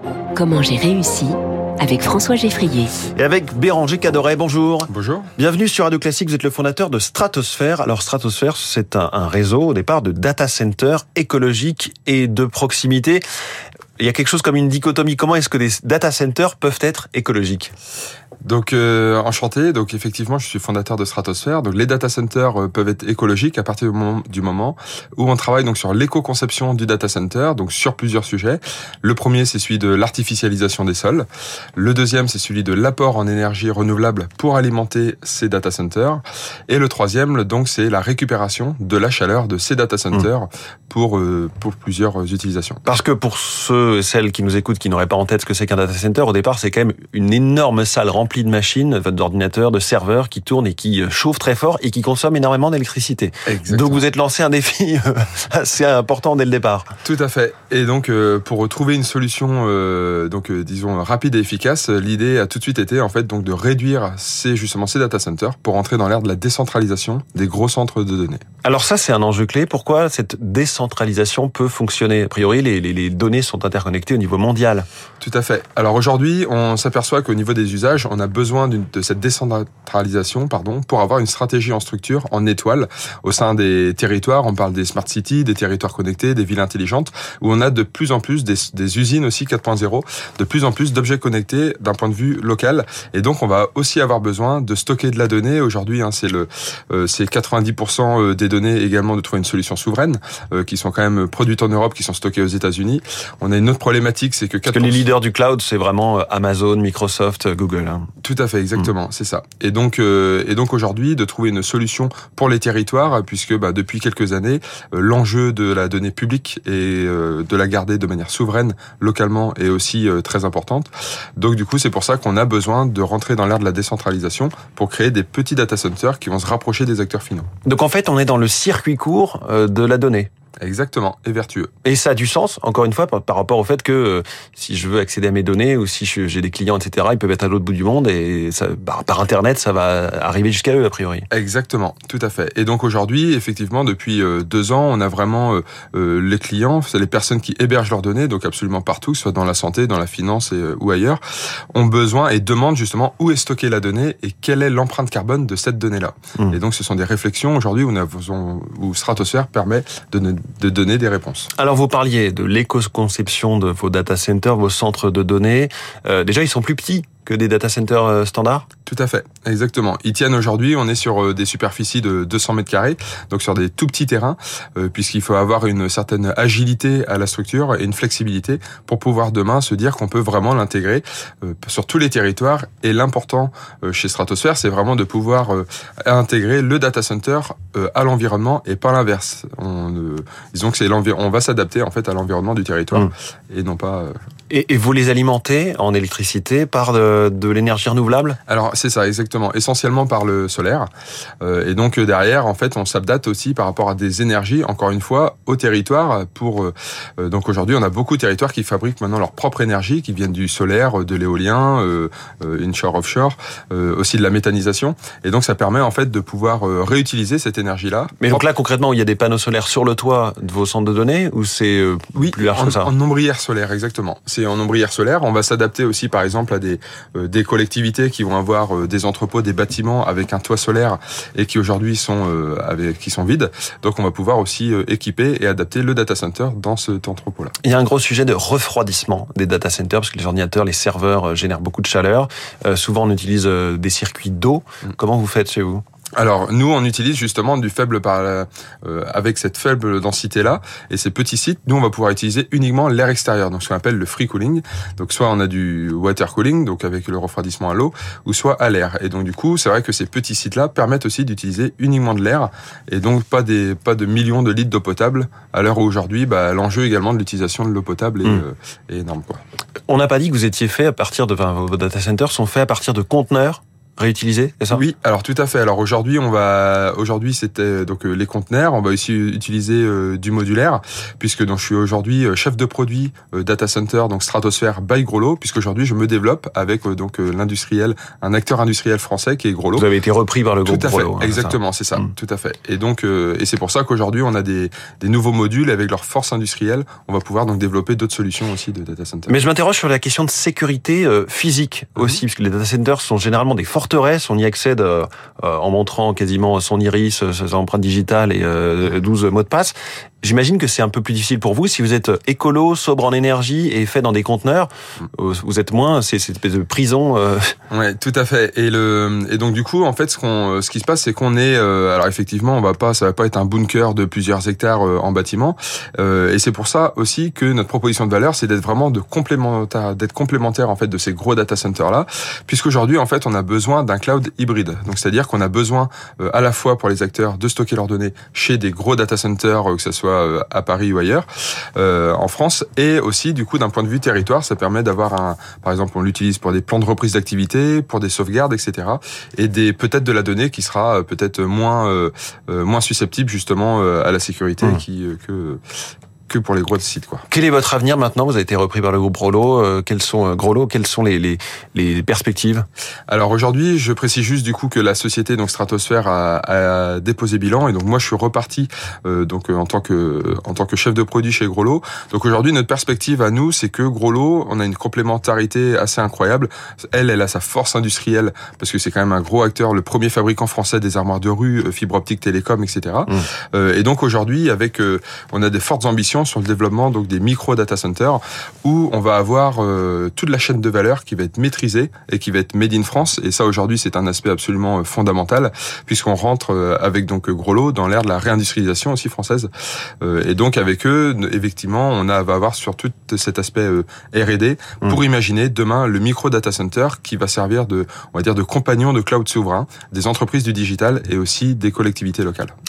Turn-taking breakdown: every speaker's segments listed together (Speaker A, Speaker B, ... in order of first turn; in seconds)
Speaker A: 0.3-2.9
Speaker B: 3.1-13.2, 14.0-17.7, 42.9-56.9, 68.6-74.9, 104.7-108.1, 127.7-130.3, 131.8-141.3, 161.6-168.7, 194.5-198.4, 218.2-222.9, 237.6-245.8, 269.9-274.9, 289.8-292.1, 299.3-317.6, 357.3-362.7
Speaker C: 4.9-5.3, 18.4-42.8, 53.5-54.1, 57.0-68.4, 75.2-105.1, 108.2-127.5, 130.6-131.7, 141.3-151.2, 151.7-161.5, 168.9-194.2, 198.5-200.9, 201.4-218.4, 222.2-237.6, 246.2-269.4, 274.7-289.9, 290.7-299.4, 317.7-355.6, 356.3-357.2, 363.1-399.5, 400.0-412.5